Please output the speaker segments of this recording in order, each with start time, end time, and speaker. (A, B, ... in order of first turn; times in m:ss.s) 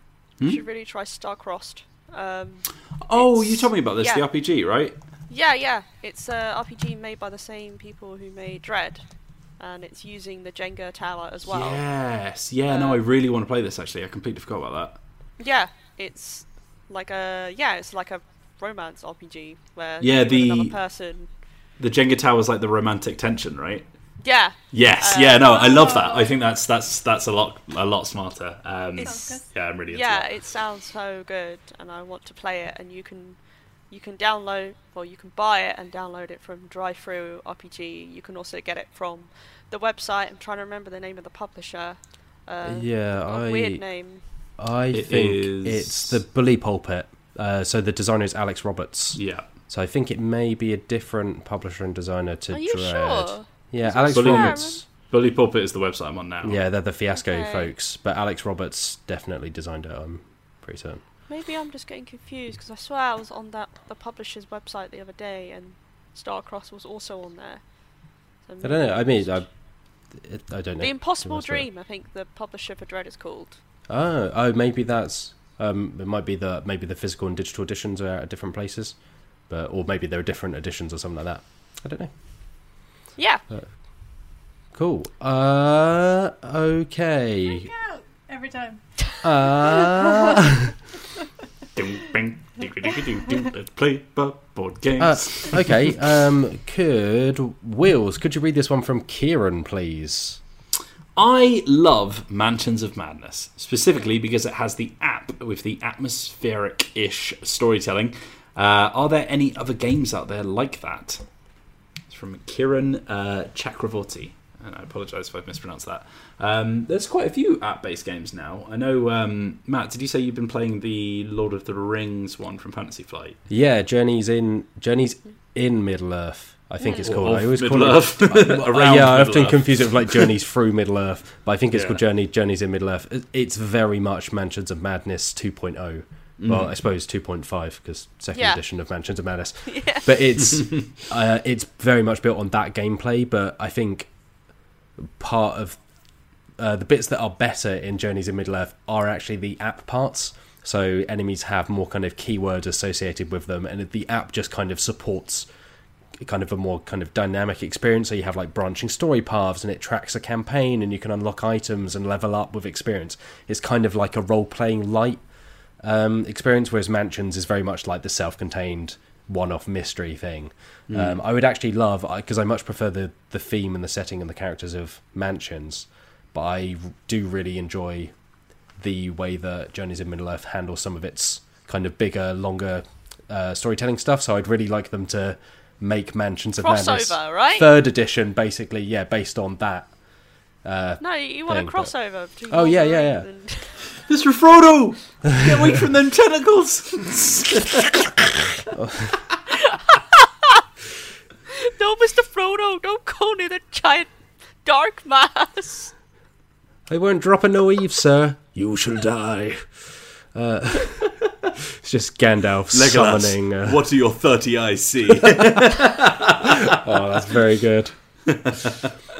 0:00.4-0:04.2 A
0:03.0-0:05.0 B
0:05.3-0:11.8 A
0:11.4-0:15.0 B
0:12.7-0:13.0 A
0:15.4-0:21.3 A
0:20.0-0:20.8 B
0:21.8-0:23.9 B
0:24.2-0:25.6 A
0:24.7-0:30.4 B
0:25.4-0:26.4 C
0:29.0-0:44.2 A
0:29.0-0:29.5 C
0:42.6-0:43.8 D
0:44.4-0:54.8 D
0:44.9-0:46.2 B
0:49.2-0:49.4 B
0:52.5-0:54.8 A
0:54.1-0:56.6 B
0:56.4-1:01.0 D
0:57.1-0:57.7 A
1:01.2-1:09.4 A
1:08.6-1:11.6 D
1:10.8-1:13.6 A
1:13.9-1:22.1 D
1:23.2-1:23.4 A
1:23.5-1:27.7 D
1:27.4-1:30.4 C
1:29.2-1:30.7 D
1:31.7-1:35.9 B
1:35.0-1:40.4 D
1:41.2-1:51.2 B
1:52.1-2:03.4 B
2:03.5-2:24.1 D
2:06.8-2:07.1 A
2:07.0-2:10.3 B
2:11.7-2:12.0 B
2:16.4-2:16.7 B
2:18.3-2:18.6 A
2:19.6-2:20.2 A
2:25.0-2:25.8 D
2:26.6-2:35.5 D
2:36.2-2:45.3 D
2:45.8-2:58.1 D
2:50.9-2:51.2 B
2:58.8-3:10.0 D
3:06.6-3:07.7 A
3:10.6-3:13.3 D
3:11.0-3:13.9 A
3:14.0-3:18.6 B
3:18.7-3:19.2 D
3:20.1-3:20.6 A
3:21.6-3:25.9 A
3:26.9-3:33.9 D
3:32.7-3:36.7 B
3:36.7-3:38.3 D
3:38.3-3:38.8 B